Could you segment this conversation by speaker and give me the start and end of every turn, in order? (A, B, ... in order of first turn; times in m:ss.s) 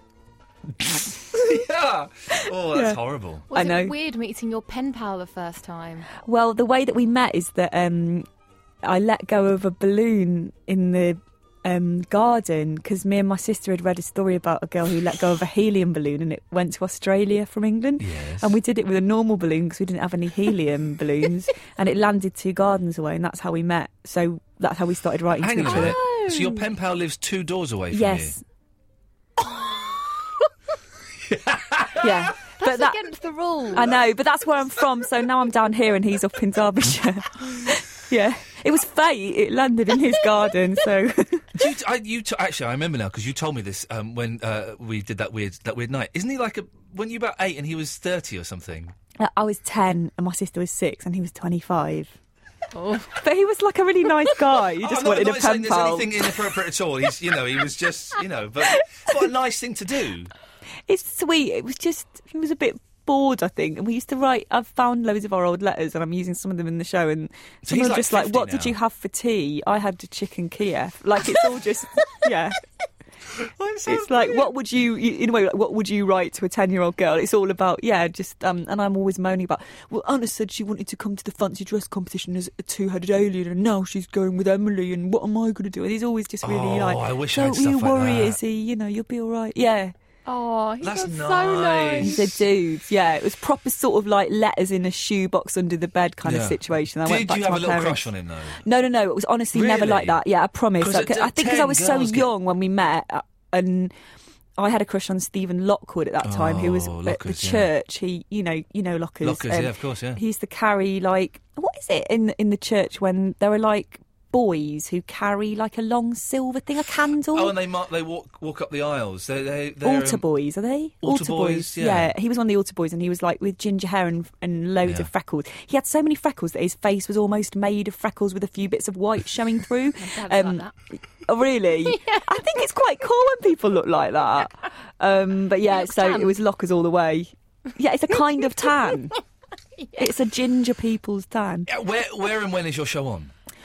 0:00.8-0:03.5 A
0:02.7-0:03.0 B
0:03.5-0:06.1 C
0:03.5-0:03.9 B
0:06.2-0:08.3 B
0:08.8-0:26.2 B
0:18.0-0:18.6 A
0:25.4-0:28.4 A
0:25.6-0:26.6 C
0:27.9-0:28.4 B
0:31.3-0:32.1 A
0:32.0-0:33.0 B
0:32.6-0:33.9 C
0:33.7-0:41.5 B
0:41.6-0:48.9 A
0:49.2-0:52.2 B
0:52.7-0:53.1 C
0:53.1-0:56.1 B
0:54.8-1:00.3 A
1:00.9-1:12.6 B
1:07.7-1:08.7 A
1:13.4-1:14.5 A
1:13.9-1:29.9 B
1:26.4-1:28.4 A
1:30.3-1:32.2 C
1:30.8-1:32.4 A
1:32.0-1:38.0 B
1:36.2-1:38.6 A
1:38.6-1:43.9 B
1:39.5-1:40.2 A
1:40.8-1:42.3 A
1:44.6-1:57.5 B
1:46.2-1:47.7 A
1:49.2-1:50.2 A
1:57.3-2:00.2 A
1:59.8-2:10.7 B
2:01.0-2:02.1 A
2:04.8-2:05.1 A
2:10.0-2:10.7 C
2:11.3-2:19.2 B
2:15.7-2:16.4 C
2:20.0-2:21.7 B
2:21.7-2:23.3 A